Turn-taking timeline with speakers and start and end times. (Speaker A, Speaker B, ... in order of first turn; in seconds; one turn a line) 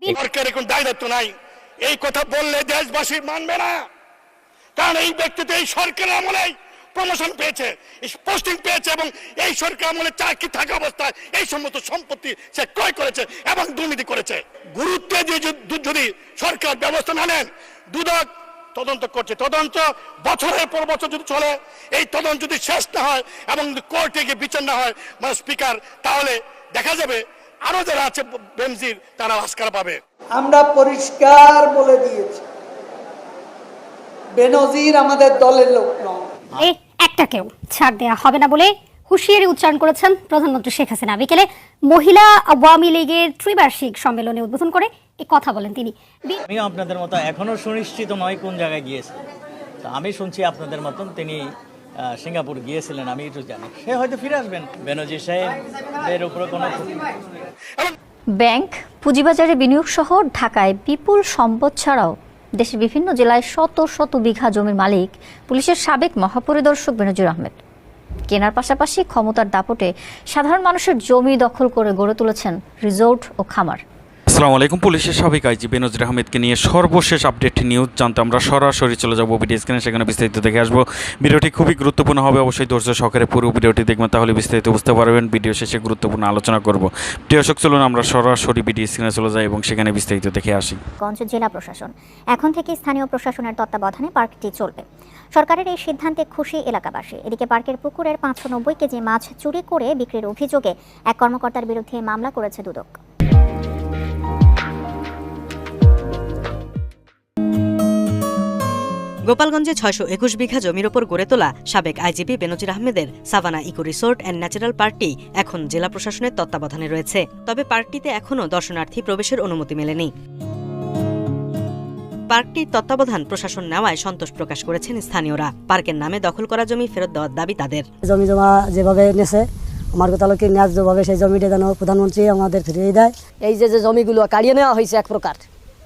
Speaker A: 0.2-1.3
Speaker A: 1.8-3.8
Speaker A: 4.8-30.0
Speaker B: 30.4-32.4
Speaker B: 34.4-35.9
Speaker C: 36.6-46.4
Speaker D: 46.5-49.1
Speaker D: 49.8-51.4
Speaker D: 52.1-57.1
Speaker E: 58.4-67.6
Speaker E: 68.3-73.8
Speaker F: 74.3-90.8
Speaker G: 91.0-94.8
Speaker G: 95.3-103.0
Speaker H: 109.2-120.1
Speaker H: 122.3-127.8
Speaker I: 128.0-133.1
Speaker J: 133.4-135.4